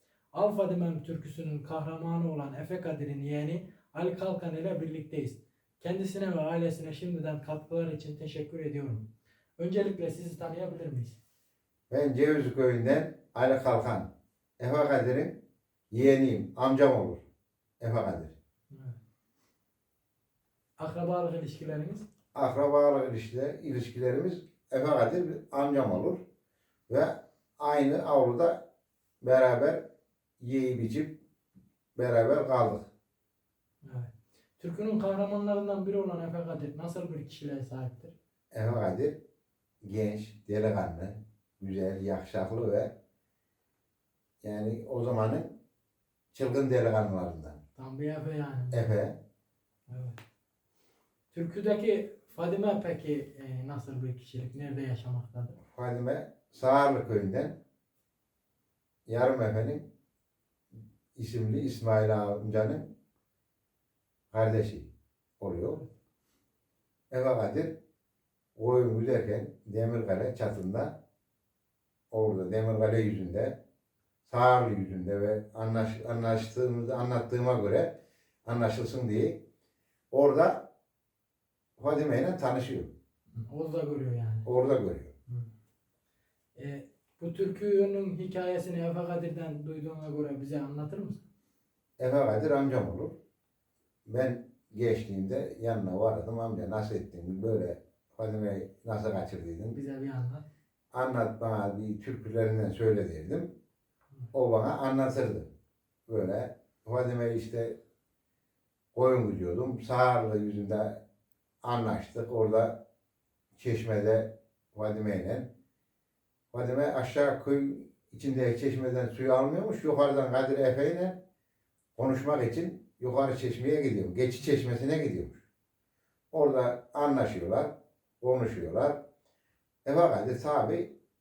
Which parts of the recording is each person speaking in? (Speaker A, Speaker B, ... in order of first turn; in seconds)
Speaker A: 0.3-9.1, 9.6-11.2, 18.7-19.0, 20.8-22.1, 33.8-38.1, 47.8-48.9, 49.9-50.2, 51.3-55.6, 83.4-84.5, 86.5-91.2, 99.7-100.4
Speaker B: 11.9-15.4, 15.9-17.2, 17.8-18.4, 22.4-26.2, 26.9-28.6, 29.2-29.8, 30.4-31.2, 32.0-32.9, 38.5-39.2, 39.8-42.9, 44.4-45.5, 46.3-47.6, 48.7-49.2, 55.7-57.6, 59.1-59.8, 61.2-62.9, 64.3-65.8, 67.1-67.7, 68.6-71.0, 72.1-73.6, 74.3-77.9, 78.5-79.4, 80.1-80.6, 81.8-82.9, 84.5-85.1, 92.0-93.2, 94.1-99.8, 100.9-103.5, 104.3-105.5, 106.1-107.8, 108.9-111.0, 111.6-112.8, 113.6-115.5, 116.5-121.2, 122.0-125.4, 126.3-127.7, 128.2-129.0, 129.8-130.9